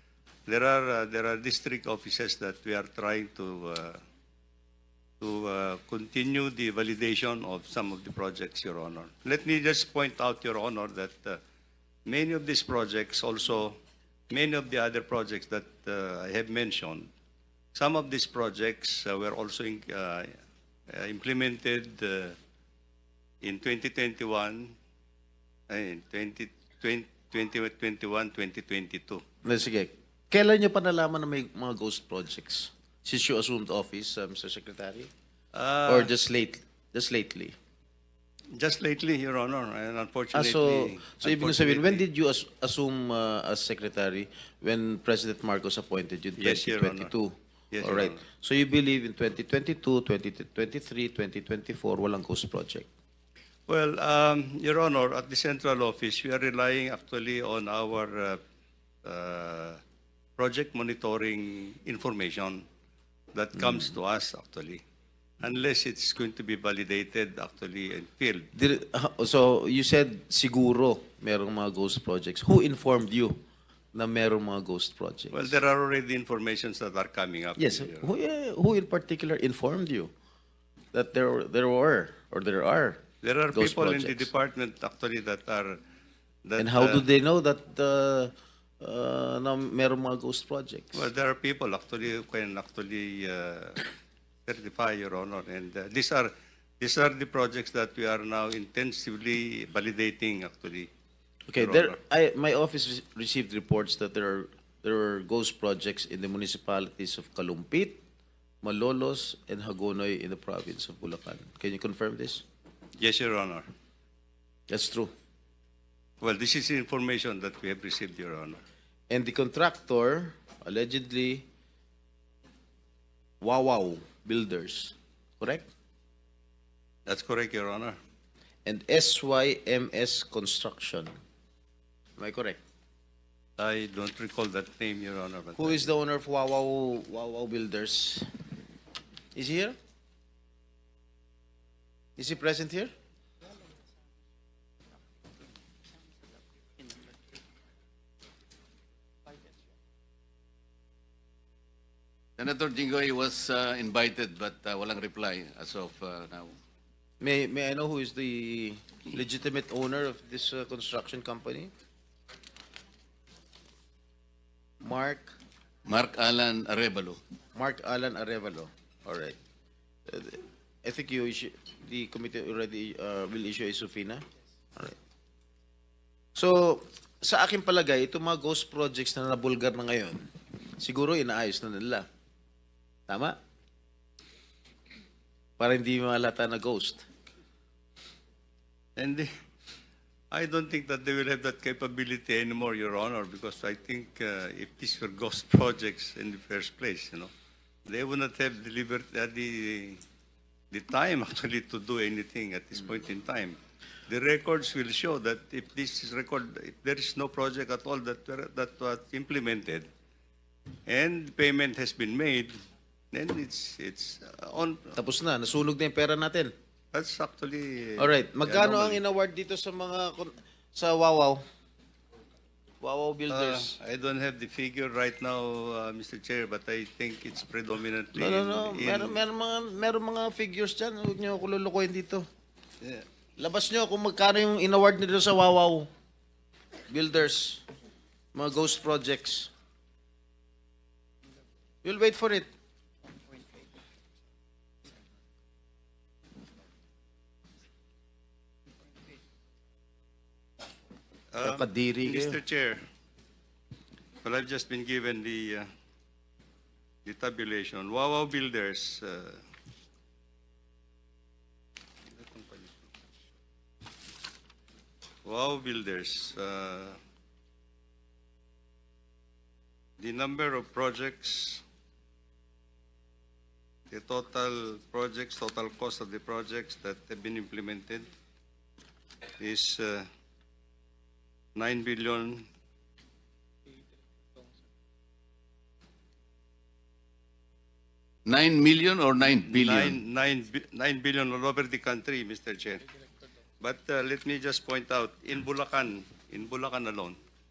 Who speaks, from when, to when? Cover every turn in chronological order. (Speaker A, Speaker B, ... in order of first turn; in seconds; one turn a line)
Speaker A: 0.5-4.0
Speaker A: 5.2-11.4
Speaker A: 12.1-13.8
Speaker A: 14.3-17.1
Speaker A: 17.8-20.4
Speaker A: 20.9-22.4
Speaker A: 23.4-24.7
Speaker A: 25.7-29.2
Speaker B: 29.4-35.1
Speaker A: 35.5-36.1
Speaker B: 35.9-37.6
Speaker A: 38.6-42.0
Speaker B: 40.3-52.9
Speaker A: 46.4-47.1
Speaker A: 47.7-48.2
Speaker A: 53.7-58.4
Speaker A: 59.0-59.8
Speaker A: 60.4-62.6
Speaker A: 63.3-64.8
Speaker A: 65.4-68.5
Speaker B: 68.5-75.5
Speaker A: 75.3-78.1
Speaker B: 77.6-80.1
Speaker B: 80.9-84.3
Speaker A: 83.2-85.8
Speaker A: 86.5-87.0
Speaker B: 86.6-91.0
Speaker A: 90.9-93.9
Speaker A: 94.5-100.9
Speaker B: 101.5-108.0
Speaker A: 101.6-102.0
Speaker B: 108.6-112.4
Speaker A: 113.0-113.7
Speaker B: 114.7-115.1
Speaker A: 116.2-118.6
Speaker B: 119.1-121.5
Speaker B: 123.4-125.7
Speaker A: 127.1-128.0
Speaker B: 128.7-131.1
Speaker B: 132.2-132.6
Speaker A: 133.6-135.9
Speaker B: 135.6-138.3
Speaker B: 139.3-139.8
Speaker B: 142.2-142.9
Speaker C: 152.4-156.5
Speaker B: 157.2-161.7
Speaker B: 164.8-165.3
Speaker C: 165.9-167.2
Speaker B: 167.6-169.4
Speaker B: 170.1-175.0
Speaker B: 176.3-180.3
Speaker B: 180.8-182.1
Speaker B: 183.1-183.4
Speaker B: 185.6-187.1
Speaker A: 189.0-189.3
Speaker A: 190.3-197.3
Speaker A: 197.9-200.0
Speaker A: 200.7-203.6
Speaker A: 204.1-209.9
Speaker A: 210.9-212.5
Speaker A: 213.1-214.9
Speaker B: 214.9-216.5
Speaker A: 216.9-219.0
Speaker B: 218.0-221.4
Speaker B: 222.8-223.8
Speaker A: 223.3-229.2
Speaker B: 228.2-232.3
Speaker B: 233.4-235.9
Speaker B: 236.9-237.7
Speaker B: 238.3-239.5
Speaker B: 241.8-242.5
Speaker A: 251.3-252.8
Speaker B: 251.4-252.4
Speaker A: 254.2-255.7
Speaker A: 257.1-259.4
Speaker A: 262.2-262.8
Speaker A: 265.2-267.0
Speaker A: 270.0-271.6
Speaker A: 273.9-278.1
Speaker A: 279.4-280.1
Speaker A: 281.6-282.5
Speaker C: 288.3-290.0
Speaker A: 289.5-292.8
Speaker A: 293.6-297.2